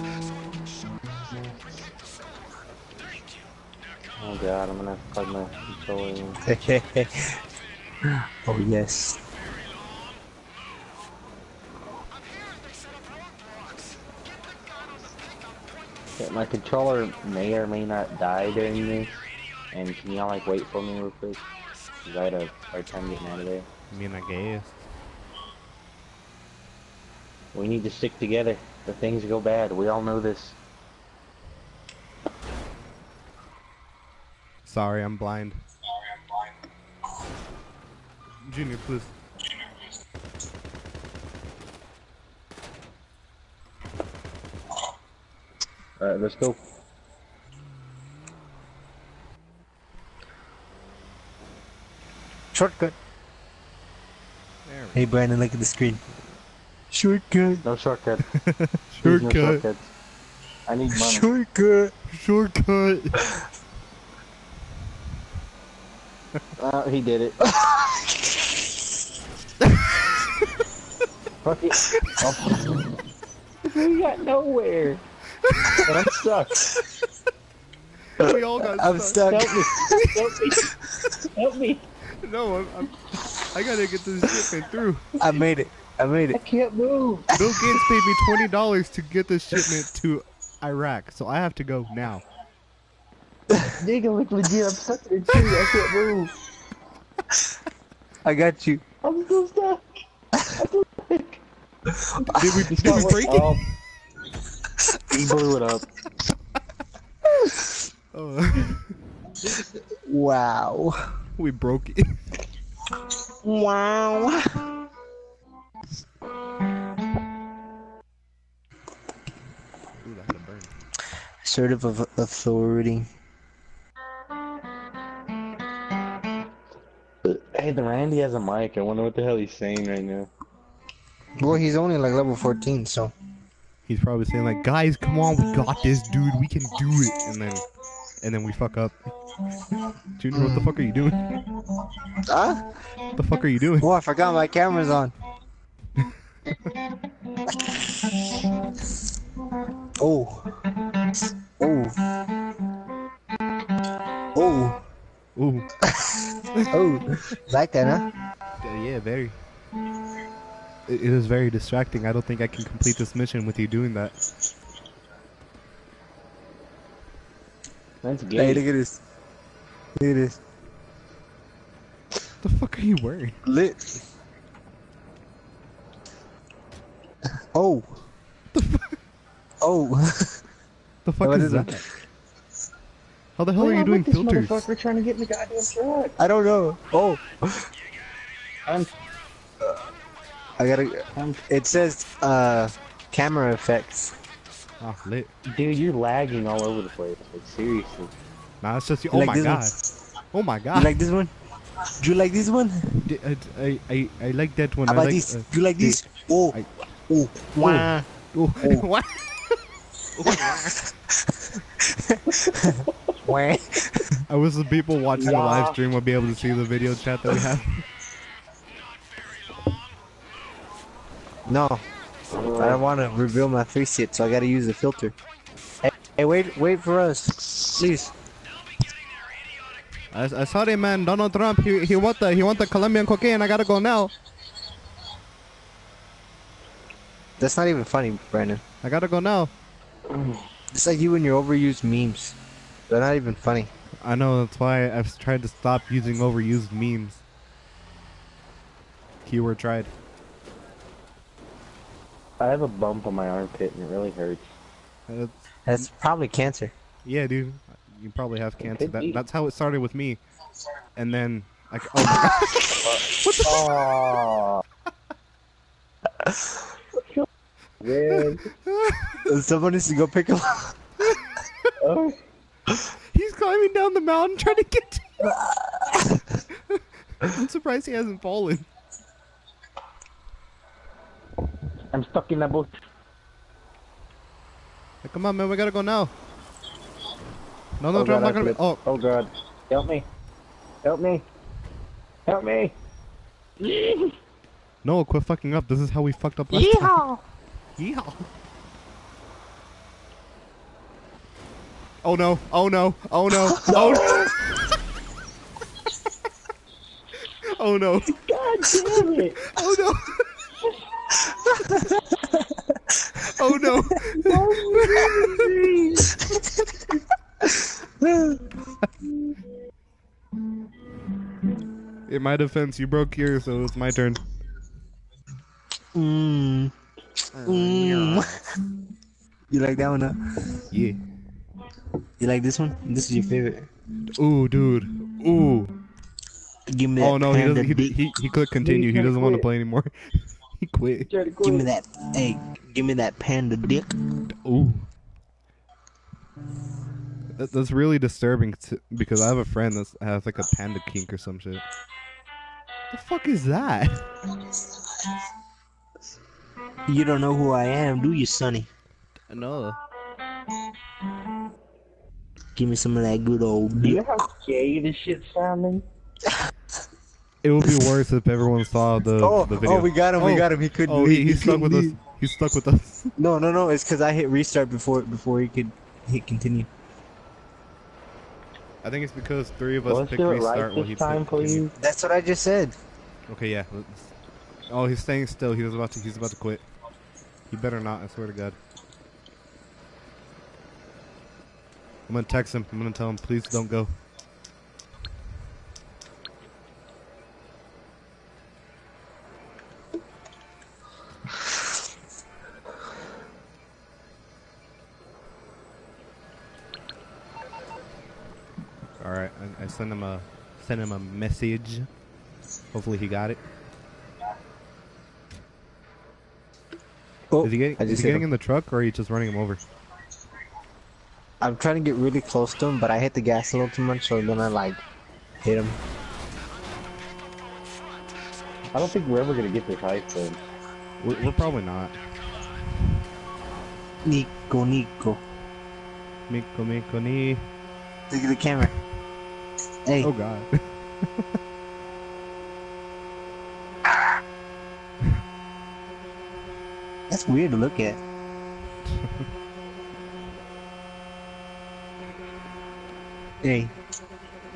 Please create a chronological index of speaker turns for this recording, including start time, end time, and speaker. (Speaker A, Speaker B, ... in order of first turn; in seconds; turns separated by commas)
Speaker A: 4.2-6.4, Speaker B: 6.5-7.4, Speaker B: 8.4-9.2, Speaker A: 16.2-19.2, Speaker A: 19.7-21.5, Speaker A: 22.0-23.7, Speaker C: 23.9-24.9, Speaker A: 27.5-30.6, Speaker C: 34.6-35.6, Speaker C: 38.5-39.1, Speaker A: 46.0-46.6, Speaker B: 52.5-53.0, Speaker C: 54.6-55.0, Speaker B: 54.9-56.0, Speaker B: 56.9-57.6, Speaker A: 57.6-58.3, Speaker C: 58.3-59.6, Speaker A: 59.0-59.9, Speaker A: 60.7-61.3, Speaker B: 60.9-61.9, Speaker C: 62.1-63.4, Speaker A: 66.6-67.4, Speaker B: 67.4-68.8, Speaker A: 71.4-72.9, Speaker A: 73.7-75.0, Speaker C: 75.5-75.8, Speaker A: 75.8-76.7, Speaker C: 78.2-80.0, Speaker B: 78.2-80.1, Speaker A: 79.2-80.7, Speaker A: 81.3-81.8, Speaker C: 82.2-85.2, Speaker B: 85.2-86.4, Speaker A: 86.3-87.3, Speaker B: 87.3-87.9, Speaker C: 87.3-92.2, Speaker A: 93.7-96.3, Speaker B: 98.2-98.8, Speaker A: 99.0-99.8, Speaker A: 100.5-101.4, Speaker B: 101.9-103.3, Speaker A: 102.2-103.6, Speaker C: 102.3-103.6, Speaker A: 105.1-105.9, Speaker C: 108.1-108.9, Speaker B: 109.9-111.2, Speaker C: 111.4-112.2, Speaker B: 113.4-114.8, Speaker C: 120.0-120.7, Speaker B: 121.4-123.1, Speaker A: 127.2-130.3, Speaker B: 131.4-133.1, Speaker C: 133.9-137.7, Speaker C: 138.2-138.9, Speaker C: 140.2-141.3, Speaker B: 140.3-140.8, Speaker B: 142.2-142.7, Speaker C: 143.2-143.9, Speaker B: 143.8-145.1, Speaker B: 147.5-148.1, Speaker B: 150.0-150.5, Speaker B: 151.6-152.0, Speaker B: 154.3-154.8, Speaker C: 155.4-155.7, Speaker B: 155.9-158.1, Speaker C: 158.6-159.4, Speaker C: 160.9-164.1, Speaker A: 168.0-168.6, Speaker B: 168.4-169.0, Speaker B: 170.0-170.4, Speaker C: 172.4-173.4, Speaker B: 173.5-173.9, Speaker B: 177.5-178.0, Speaker C: 178.5-179.0, Speaker B: 179.6-180.4, Speaker C: 181.1-181.8, Speaker B: 181.2-181.9, Speaker C: 183.4-184.6, Speaker A: 183.6-186.2, Speaker B: 186.2-187.7, Speaker A: 188.7-188.9, Speaker B: 190.6-194.1, Speaker A: 191.2-191.4, Speaker C: 194.8-195.3, Speaker A: 195.5-198.1, Speaker C: 198.6-199.7, Speaker B: 199.1-199.7, Speaker C: 200.3-201.0, Speaker B: 200.7-201.3, Speaker B: 202.0-203.0, Speaker C: 203.0-206.0, Speaker B: 204.9-206.6, Speaker B: 207.1-207.9, Speaker C: 207.6-209.6, Speaker B: 208.6-208.9, Speaker C: 210.1-210.9, Speaker B: 210.2-214.2, Speaker C: 214.3-217.8, Speaker A: 215.2-215.8, Speaker B: 221.5-221.8, Speaker A: 222.4-222.8, Speaker B: 222.6-225.1, Speaker B: 225.8-228.1, Speaker C: 230.1-234.1, Speaker B: 237.4-238.6, Speaker C: 238.8-239.5, Speaker A: 240.1-240.4, Speaker B: 240.7-242.4, Speaker B: 242.9-243.7, Speaker C: 244.0-247.2, Speaker C: 249.3-249.9, Speaker A: 252.4-254.5, Speaker C: 255.1-255.3, Speaker B: 255.7-256.7, Speaker C: 257.1-260.2, Speaker A: 258.7-259.2, Speaker C: 261.0-263.9, Speaker B: 262.0-262.8, Speaker A: 262.8-264.6, Speaker A: 267.8-268.4, Speaker C: 268.2-269.3, Speaker B: 269.3-270.8, Speaker C: 271.1-271.7, Speaker A: 271.8-272.2, Speaker C: 273.1-275.1, Speaker B: 275.2-276.4, Speaker C: 276.5-278.7, Speaker A: 281.9-282.7, Speaker C: 285.0-286.1, Speaker C: 287.8-288.8, Speaker A: 287.9-290.1, Speaker A: 290.8-291.3, Speaker A: 292.3-292.8, Speaker A: 293.6-294.1, Speaker C: 294.8-297.0, Speaker B: 296.5-297.2, Speaker C: 297.8-298.2, Speaker C: 302.0-304.8, Speaker A: 303.7-304.4, Speaker C: 307.5-308.1, Speaker A: 308.1-309.4, Speaker C: 309.4-310.3, Speaker B: 311.7-313.1, Speaker C: 313.2-315.5, Speaker A: 314.2-316.2, Speaker B: 317.4-318.4, Speaker C: 322.1-324.2, Speaker B: 325.9-326.7, Speaker C: 327.4-328.4, Speaker B: 327.4-328.4, Speaker B: 329.5-330.6, Speaker C: 330.7-331.0, Speaker B: 332.2-333.7, Speaker C: 334.1-335.7, Speaker B: 336.7-338.0, Speaker C: 337.0-341.1, Speaker A: 338.6-339.5, Speaker A: 341.1-341.7, Speaker B: 341.4-343.9, Speaker C: 344.3-344.9, Speaker C: 347.4-351.6, Speaker C: 352.9-354.1, Speaker B: 356.9-358.7, Speaker C: 359.3-359.8, Speaker B: 362.6-364.0, Speaker A: 363.8-365.9, Speaker C: 367.4-373.1, Speaker B: 369.2-372.0, Speaker B: 373.2-376.7, Speaker C: 378.8-381.7, Speaker A: 379.9-381.7, Speaker B: 381.8-382.8, Speaker C: 383.3-384.1, Speaker C: 384.7-386.6, Speaker C: 387.5-388.6, Speaker C: 392.1-393.9, Speaker C: 409.0-411.9, Speaker C: 412.7-413.4, Speaker B: 417.3-418.3, Speaker C: 417.4-419.6, Speaker B: 421.4-424.8, Speaker B: 425.4-425.8, Speaker A: 428.7-430.4, Speaker C: 431.0-432.0, Speaker B: 434.1-435.2, Speaker C: 436.3-437.4, Speaker B: 438.1-438.7, Speaker B: 439.9-440.1, Speaker C: 440.0-441.3, Speaker B: 447.1-448.0, Speaker C: 449.0-449.3, Speaker B: 453.4-453.7